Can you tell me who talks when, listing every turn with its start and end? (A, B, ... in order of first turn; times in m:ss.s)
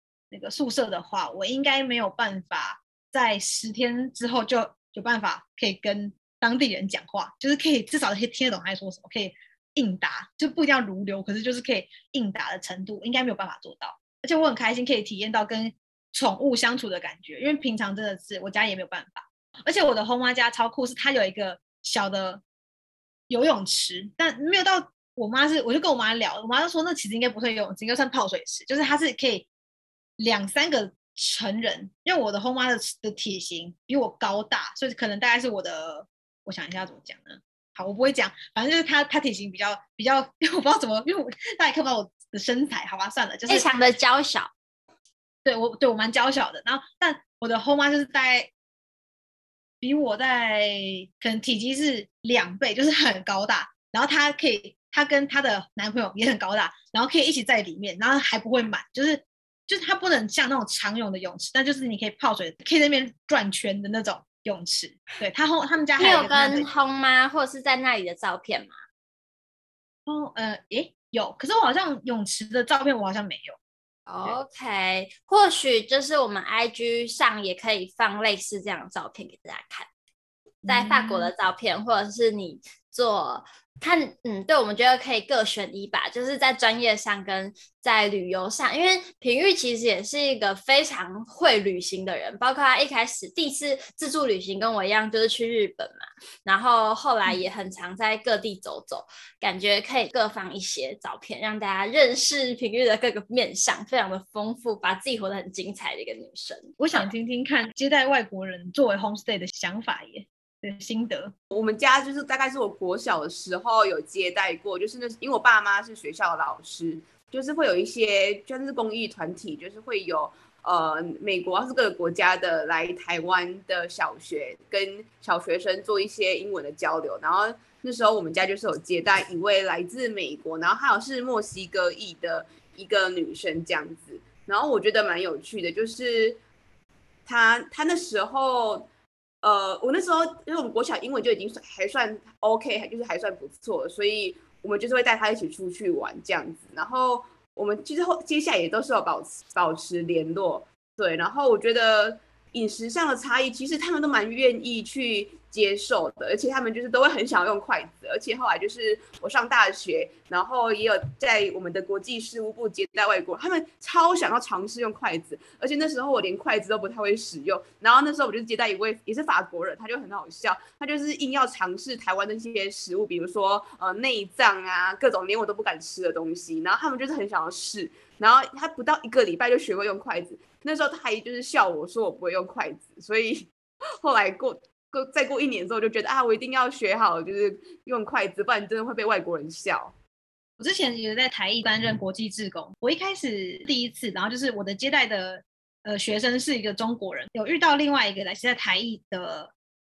0:00.3-0:22.4 A
0:23.3-0:29.5 A
0:30.2-0:43.9 A
0:43.5-0:44.5 B
0:45.4-0:48.5 A
0:49.8-1:06.7 A
1:06.0-1:08.7 B
1:10.0-1:13.6 A
1:14.1-1:19.9 B
1:20.6-1:21.3 A
1:20.6-1:47.1 B
1:46.8-1:51.3 A
1:51.5-2:16.4 C
2:17.2-2:18.9 C
2:19.4-3:03.5 C
3:04.0-3:09.9 C
3:10.6-3:19.5 A